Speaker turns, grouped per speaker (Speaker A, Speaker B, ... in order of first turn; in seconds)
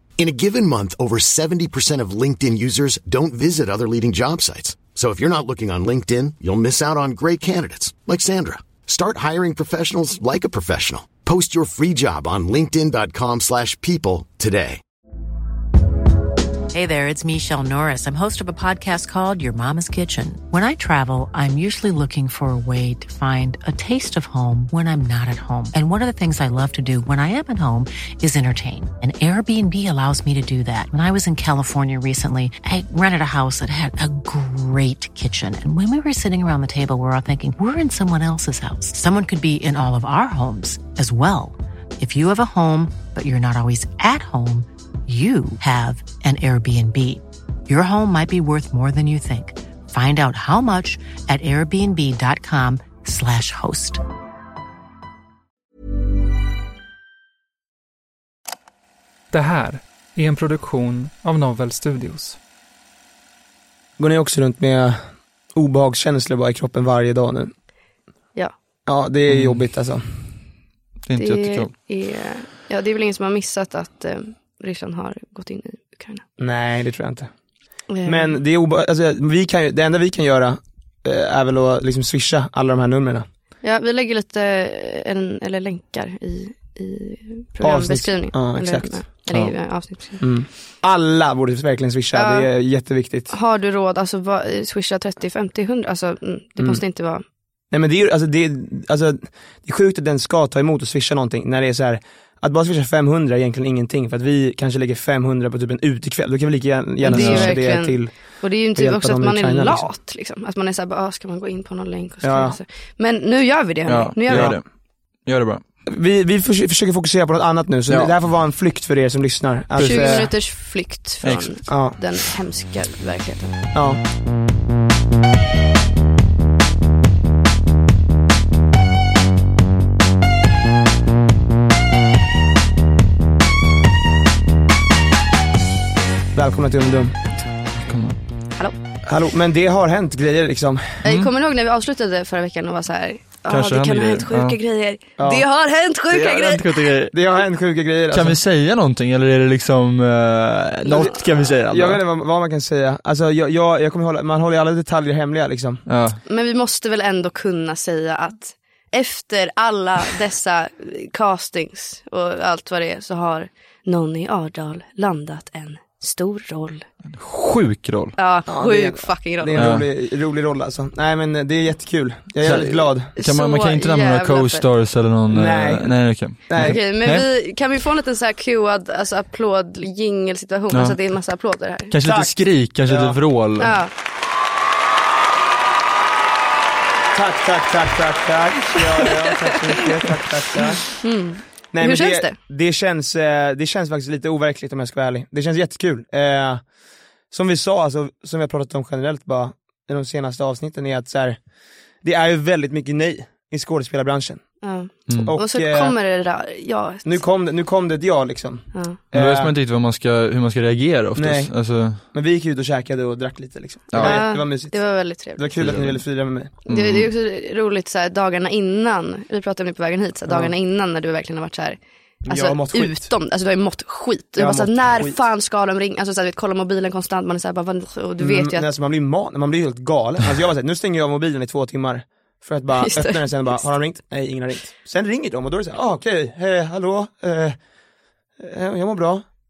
Speaker A: 0.2-14.8
Speaker B: 16.7-54.0
Speaker C: 59.3-62.4
Speaker D: 64.0-65.0, 65.5-67.5, 68.8-70.0, 76.4-77.3, 78.0-83.3, 87.6-89.5, 90.2-93.3, 97.7-109.9, 112.2-112.6, 114.3-114.6, 115.9-120.3, 121.7-121.9, 123.7-124.0, 136.3-137.2, 139.1-141.0, 145.2-145.4, 147.1-148.4, 150.9-155.8, 168.5-173.1, 175.3-176.8, 182.0-182.3, 182.8-183.2, 187.1-191.0, 191.7-196.6, 197.3-201.4, 202.0-205.9, 207.0-209.5, 211.2-211.5, 212.1-216.6, 222.2-223.1, 224.4-225.2, 228.2-237.6, 238.4-239.2
Speaker E: 69.3-69.6, 71.0-71.7, 107.1-107.5, 113.9-114.6, 115.2-115.6, 117.9-118.1, 119.7-120.3, 121.2-121.9, 137.7-138.2, 141.0-141.3, 143.5-144.6, 146.1-147.1, 148.1-152.0, 155.9-156.2, 167.1-168.2, 169.6-169.8, 172.4-177.2, 180.7-181.0, 181.9-183.8, 205.1-205.3, 209.1-212.0, 213.9-214.3, 215.6-216.0, 216.7-217.1
Speaker F: 71.2-76.2, 77.9-78.4, 83.6-90.2, 92.1-92.5, 93.3-97.2, 107.0-114.5, 119.8-123.5, 141.0-146.9, 156.3-166.8, 168.2-169.7, 173.2-174.7, 176.5-181.9, 183.6-183.9, 191.0-192.3, 204.6-207.2, 214.0-215.5, 216.7-221.8, 222.3-228.7, 232.8-233.7